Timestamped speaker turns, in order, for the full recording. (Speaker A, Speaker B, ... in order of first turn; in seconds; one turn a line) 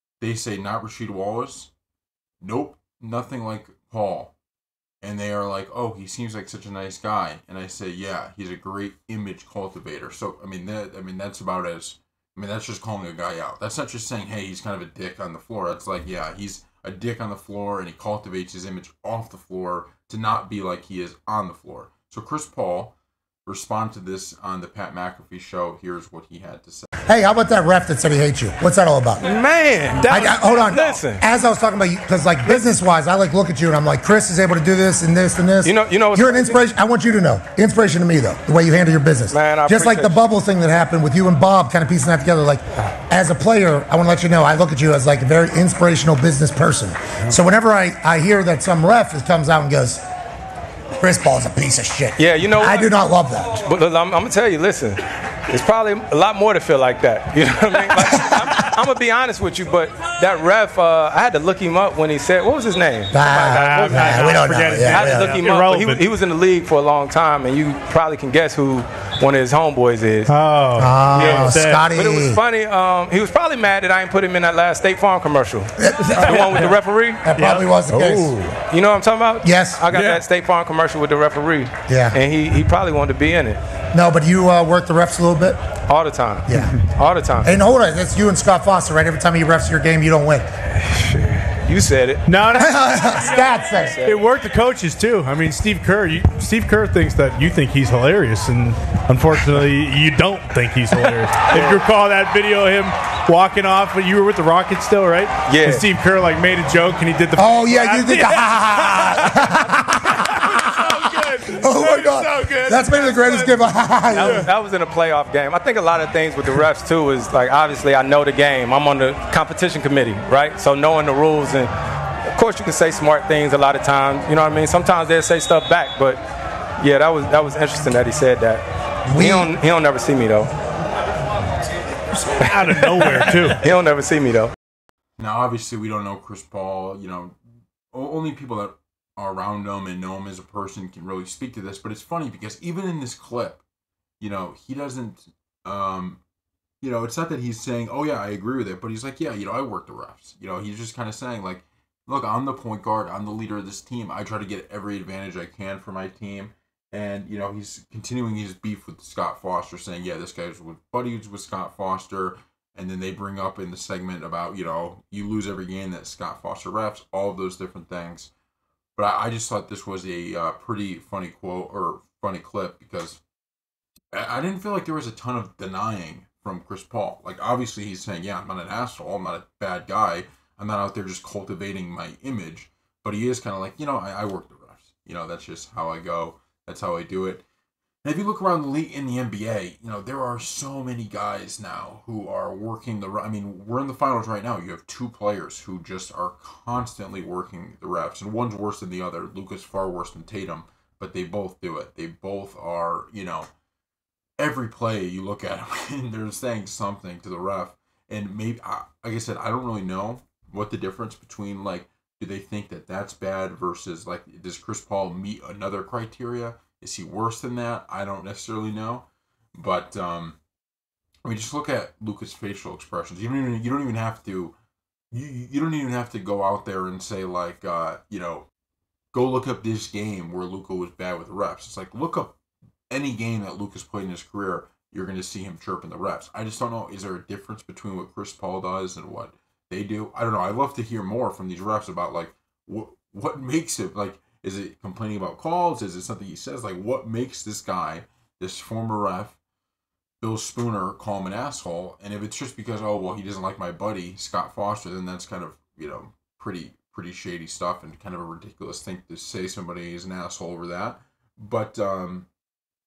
Speaker A: 0.2-1.7
Speaker A: 2.4-4.3
Speaker A: 5.0-22.9
Speaker A: 23.4-26.9
Speaker B: 27.1-29.2
Speaker C: 29.2-31.2
Speaker B: 30.1-50.0
Speaker C: 35.6-36.6
Speaker C: 39.3-40.2
Speaker B: 51.0-53.6
Speaker C: 52.1-52.9
Speaker C: 53.5-70.3
Speaker B: 63.1-65.4
Speaker D: 63.4-66.0
Speaker D: 70.3-71.8
Speaker B: 70.8-72.4
Speaker C: 71.1-77.2
Speaker B: 75.8-76.6
Speaker D: 76.2-76.7
Speaker B: 77.2-78.4
Speaker D: 77.3-78.5
Speaker C: 78.7-83.6
Speaker B: 79.4-79.8
Speaker D: 79.9-80.2
Speaker B: 81.9-82.2
Speaker B: 83.9-85.6
Speaker C: 85.9-87.5
Speaker B: 86.5-86.8
Speaker B: 87.4-90.5
Speaker C: 90.8-92.2
Speaker D: 92.2-114.5
Speaker B: 92.5-94.0
Speaker C: 93.8-94.3
Speaker C: 100.9-101.8
Speaker C: 105.5-105.8
Speaker B: 107.3-110.9
Speaker B: 111.5-114.5
Speaker C: 114.1-121.7
Speaker C: 122.3-126.2
Speaker C: 126.8-130.5
Speaker B: 129.1-129.5
Speaker D: 132.2-133.6
Speaker C: 132.7-134.5
Speaker A: 135.2-137.3
Speaker A: 137.9-143.6
Speaker A: 144.2-146.2
Speaker A: 146.8-168.3
Speaker A: 168.9-173.2
Speaker A: 174.1-187.4
Speaker A: 188.0-203.5
Speaker A: 204.4-220.4
Speaker A: 221.2-224.5
Speaker A: 225.1-228.5
Speaker A: 229.1-232.3
Speaker A: 232.9-249.4
Speaker A: 250.2-262.3